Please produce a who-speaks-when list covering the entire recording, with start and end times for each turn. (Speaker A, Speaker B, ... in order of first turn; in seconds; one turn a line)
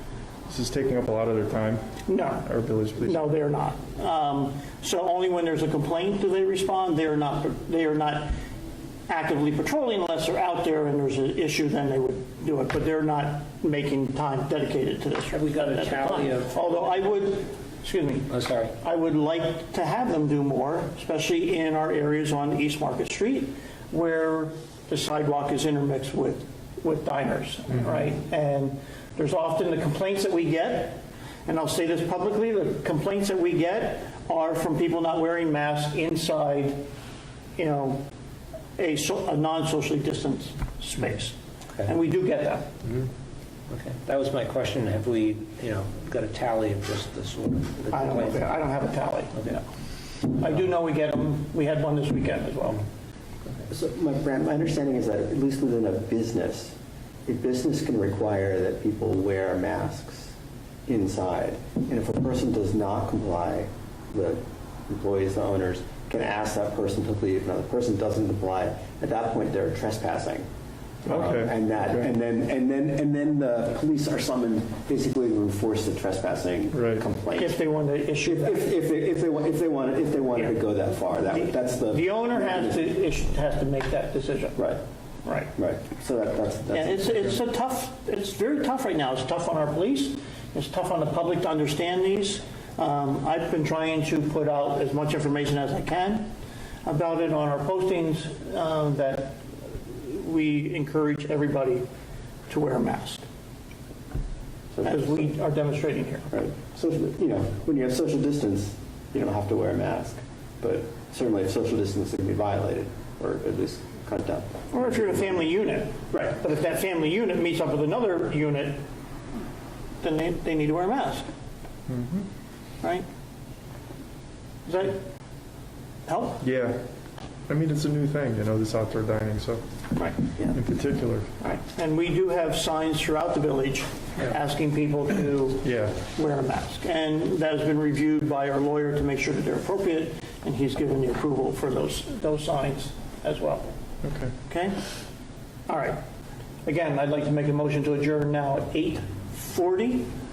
Speaker A: 0.5-3.3
Speaker B: 2.1-2.5
Speaker B: 3.0-8.4
Speaker B: 9.1-36.8
Speaker C: 15.3-17.1
Speaker C: 18.3-18.7
Speaker B: 37.6-38.0
Speaker B: 38.8-42.7
Speaker C: 43.7-48.5
Speaker B: 47.9-49.7
Speaker B: 50.3-52.9
Speaker D: 53.7-60.4
Speaker D: 60.9-70.5
Speaker D: 71.0-77.6
Speaker A: 71.1-72.1
Speaker A: 76.7-77.0
Speaker B: 77.4-78.7
Speaker D: 78.2-82.8
Speaker B: 81.3-84.6
Speaker B: 85.2-85.5
Speaker D: 85.5-87.3
Speaker B: 86.7-96.3
Speaker B: 96.8-101.8
Speaker B: 102.5-103.2
Speaker D: 104.8-105.3
Speaker B: 104.8-106.3
Speaker D: 106.3-115.2
Speaker B: 114.7-118.8
Speaker B: 120.0-121.3
Speaker A: 121.9-122.3
Speaker B: 124.7-125.1
Speaker B: 126.1-126.4
Speaker A: 126.4-126.8
Speaker A: 127.5-129.6
Speaker B: 130.0-130.5
Speaker A: 130.4-131.3
Speaker B: 131.4-143.7
Speaker A: 135.6-136.0
Speaker A: 144.0-144.3
Speaker B: 144.5-144.8
Speaker B: 145.7-146.0
Speaker B: 146.7-150.1